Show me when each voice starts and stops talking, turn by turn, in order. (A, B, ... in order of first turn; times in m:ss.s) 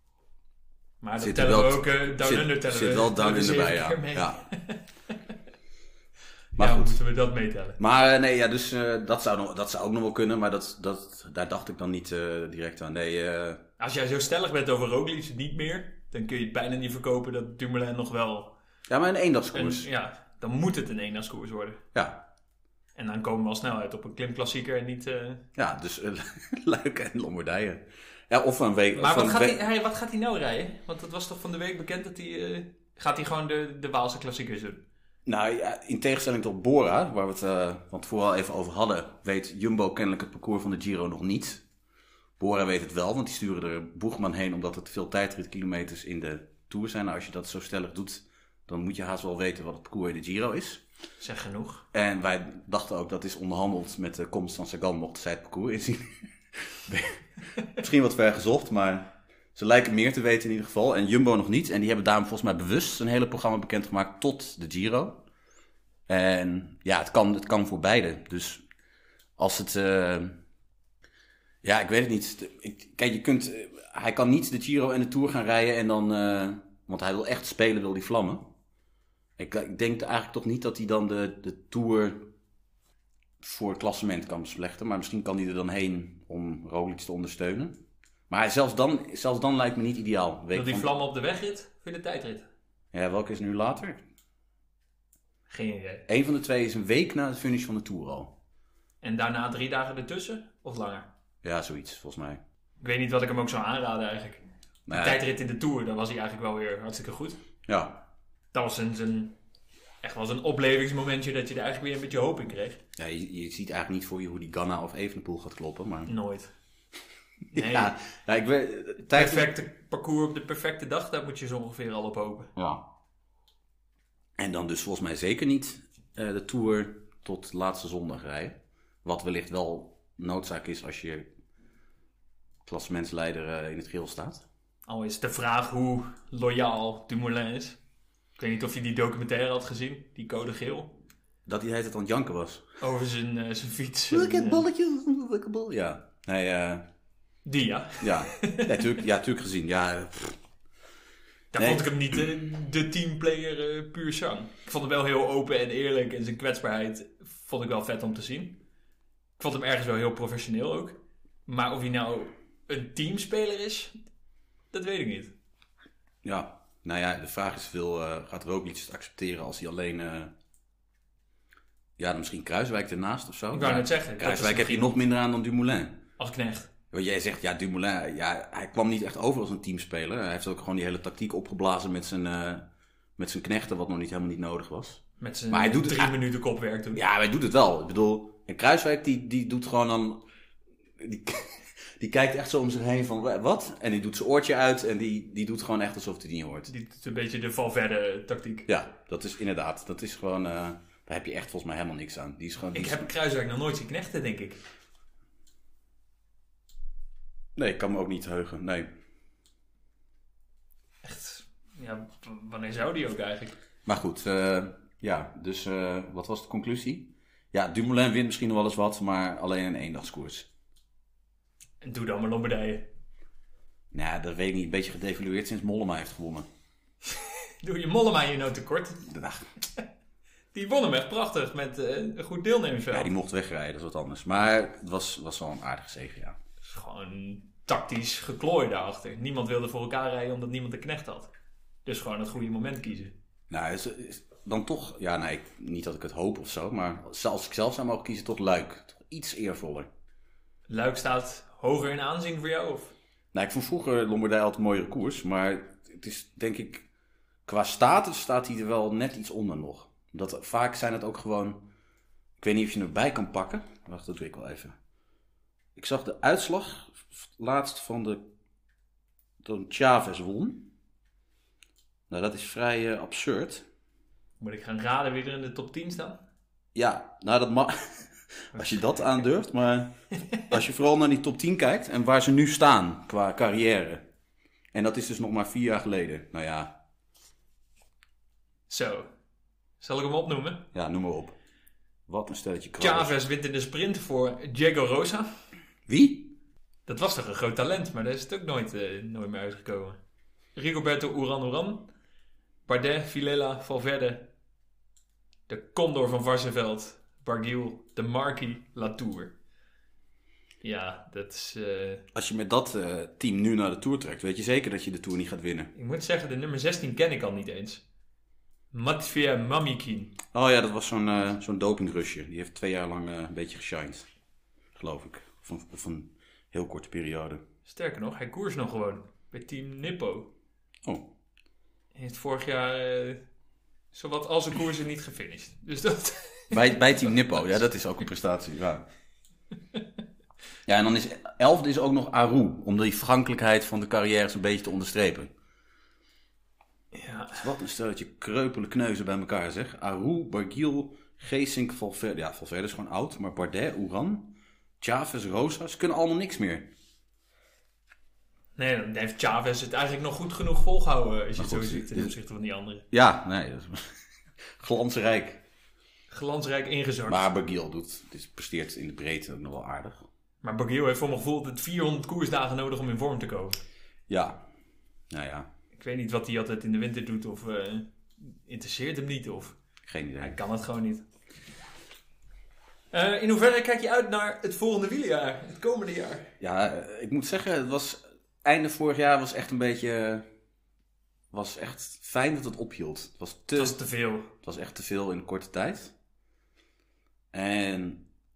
0:01.0-0:05.2 A
0:01.2-0:04.4 B
0:06.6-0:07.8 A
0:06.6-0:07.0 B
0:07.8-0:13.6 B
0:13.8-0:18.6 A
0:18.9-0:19.9 B
0:19.5-0:21.8 A
0:21.9-0:22.2 B
0:23.0-0:25.4 A
0:25.6-0:29.6 B
0:29.0-0:34.8 A
0:35.3-0:41.6 B
0:42.4-0:50.8 B
0:51.2-0:51.9 A
0:51.9-1:05.2 B
1:06.1-1:08.6 B
1:09.4-1:10.4 B
1:11.6-1:18.5 B
1:19.4-1:22.3 B
1:23.4-1:30.9 B
1:30.5-1:32.5 A
1:32.9-1:34.0 B
1:35.5-1:36.1 A
1:36.1-1:38.4 B
1:39.0-1:41.1 A
1:41.4-1:42.4 B
1:42.8-1:47.4 A
1:44.9-1:45.2 B
1:47.6-1:48.0 B
1:48.5-1:49.4 A
1:50.0-1:52.8 A
1:53.0-1:56.1 B
1:56.1-1:56.5 A
1:57.5-1:58.0 A
1:57.5-1:59.5 B
1:59.0-2:02.5 A
2:02.6-2:02.9 B
2:04.4-2:11.3 B
2:12.6-2:14.4 B
2:14.9-2:17.8 A
2:18.4-2:21.0 A
2:21.5-2:22.6 B
2:22.8-2:24.6 A
2:24.1-2:26.9 B
2:27.5-2:28.9 A
2:28.0-2:30.4 B
2:31.5-2:38.6 A
2:31.6-2:31.9 B
2:39.4-2:44.0 A
2:44.7-2:45.3 A
2:46.2-2:50.3 B
2:52.0-2:56.0 B
2:53.5-2:55.0 A
2:56.2-2:56.7 A
2:56.9-3:06.1 B
3:05.2-3:07.0 A
3:06.9-3:10.2 B
3:11.0-3:16.7 B
3:16.7-3:18.7 A
3:18.7-3:23.1 B
3:22.7-3:24.6 A
3:27.6-3:28.9 B
3:31.0-3:33.6 A
3:33.9-3:40.5 B
3:41.8-3:42.9 A
3:43.9-3:46.5 B
3:47.1-3:49.1 A
3:49.1-3:49.5 B
3:50.5-3:53.1 A
3:52.9-3:56.4 B
3:56.6-4:01.3 A
4:01.9-4:03.1 A
4:03.5-4:09.9 B
4:10.7-4:12.9 A
4:13.3-4:16.9 B
4:17.5-4:21.7 B
4:22.4-4:24.8 B
4:25.8-4:28.2 B
4:29.4-4:30.7 B
4:32.1-4:33.6 B
4:34.4-4:36.2 A
4:36.7-4:44.0 B
4:38.5-4:39.0 A
4:44.7-4:46.8 B
4:48.7-4:49.1 A
4:49.8-4:50.6 A
4:50.7-4:51.4 B
4:52.1-4:53.1 B
4:52.8-4:55.3 A
4:55.9-4:56.4 B
4:56.9-5:00.0 A
5:00.6-5:01.9 A
5:02.6-5:04.3 A
5:05.5-5:09.4 A
5:10.6-5:12.0 A
5:12.1-5:15.7 B
5:15.7-5:17.8 A
5:18.7-5:20.2 A
5:20.3-5:24.1 B
5:24.8-5:27.4 B
5:27.6-5:30.3 A
5:30.8-5:31.1 B
5:32.0-5:33.2 A
5:33.9-5:36.8 A
5:36.5-5:38.9 B
5:40.6-5:45.3 B
5:46.9-5:47.5 A
5:47.3-5:56.7 B
5:58.6-6:02.9 A
6:01.4-6:02.1 B
6:02.9-6:05.4 B
6:06.1-6:07.2 A
6:07.1-6:10.0 B
6:10.4-6:13.6 A
6:14.1-6:14.4 B
6:15.1-6:15.5 B
6:15.7-6:19.6 A
6:19.9-6:20.4 B
6:20.2-6:21.0 A
6:22.9-6:26.3 A
6:26.4-6:30.3 B
6:31.3-6:33.8 B
6:33.6-6:34.3 A
6:34.4-6:35.9 B
6:37.3-6:38.0 B